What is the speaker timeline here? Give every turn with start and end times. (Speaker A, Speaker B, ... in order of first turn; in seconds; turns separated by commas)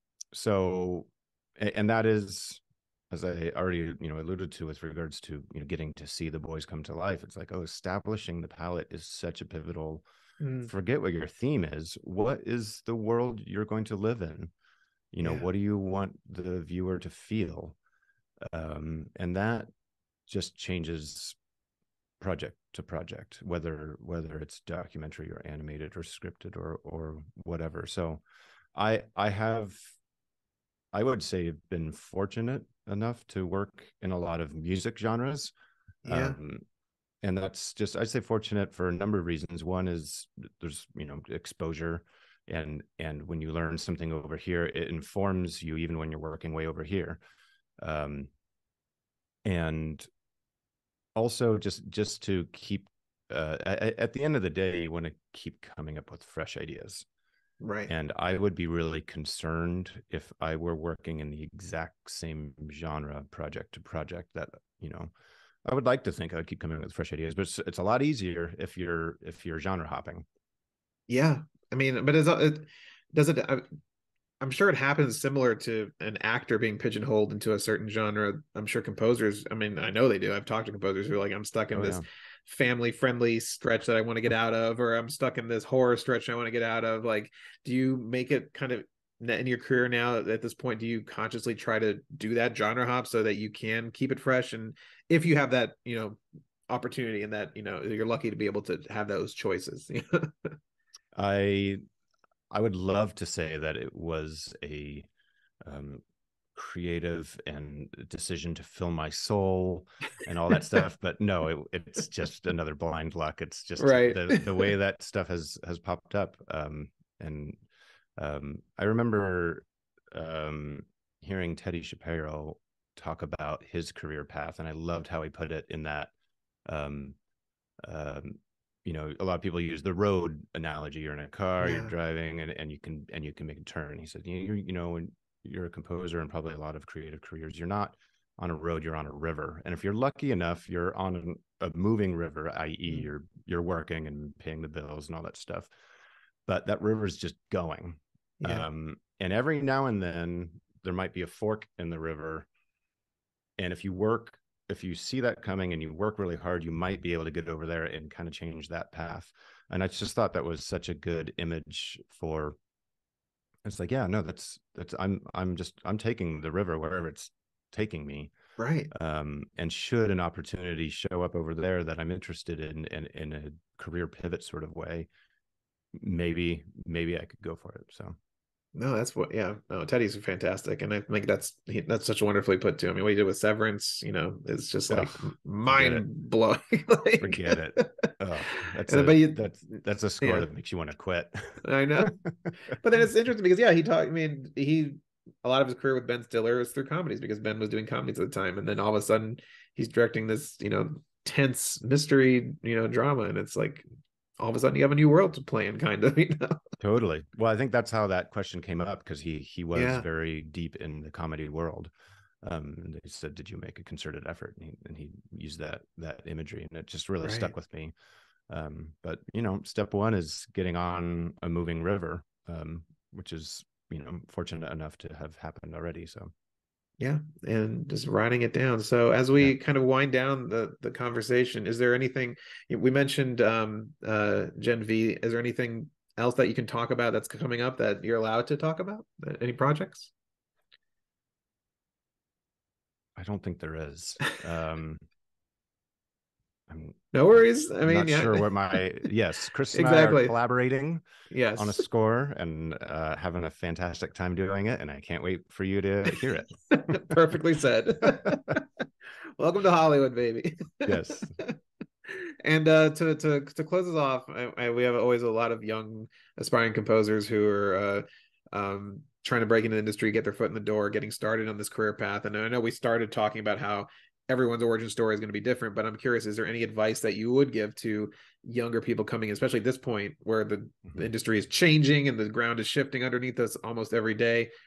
Speaker A: 0.3-10.0, Speaker B: 10.4-10.7, Speaker A: 10.7-14.5, Speaker A: 15.1-17.8, Speaker B: 15.2-15.5, Speaker A: 18.5-19.7, Speaker A: 20.3-21.4, Speaker A: 22.2-28.2, Speaker A: 28.7-29.8, Speaker A: 30.9-35.5, Speaker A: 36.0-36.6, Speaker B: 36.0-36.4, Speaker A: 37.2-47.2, Speaker A: 47.8-48.3, Speaker A: 49.4-50.1, Speaker A: 51.1-57.0, Speaker B: 57.6-57.9, Speaker A: 57.9-65.1, Speaker A: 65.7-70.2, Speaker B: 71.1-73.7, Speaker B: 74.4-100.6, Speaker A: 81.7-82.0, Speaker A: 101.1-101.8, Speaker A: 102.5-105.1, Speaker A: 105.6-106.0, Speaker A: 106.5-117.6, Speaker B: 113.8-114.7, Speaker A: 118.2-126.1, Speaker A: 126.7-127.2, Speaker A: 127.8-145.7, Speaker B: 131.6-131.9, Speaker A: 146.5-152.5, Speaker B: 148.4-148.7, Speaker A: 153.6-162.5, Speaker A: 163.6-168.3, Speaker B: 168.6-168.9, Speaker A: 168.9-175.1, Speaker A: 175.9-178.2, Speaker B: 178.7-188.1, Speaker A: 184.9-186.1, Speaker A: 187.2-192.6, Speaker B: 188.9-189.4, Speaker B: 190.2-190.5, Speaker B: 191.6-192.1, Speaker B: 192.7-203.8, Speaker B: 204.4-206.6, Speaker A: 206.8-211.9, Speaker B: 209.7-210.0, Speaker A: 212.4-217.9, Speaker B: 217.2-217.5, Speaker A: 218.5-226.3, Speaker B: 227.0-240.1, Speaker A: 243.2-245.0, Speaker A: 246.7-247.0, Speaker B: 247.1-248.5, Speaker A: 247.8-257.2, Speaker B: 249.7-250.3, Speaker B: 251.3-251.8, Speaker B: 256.7-284.5, Speaker A: 260.8-261.4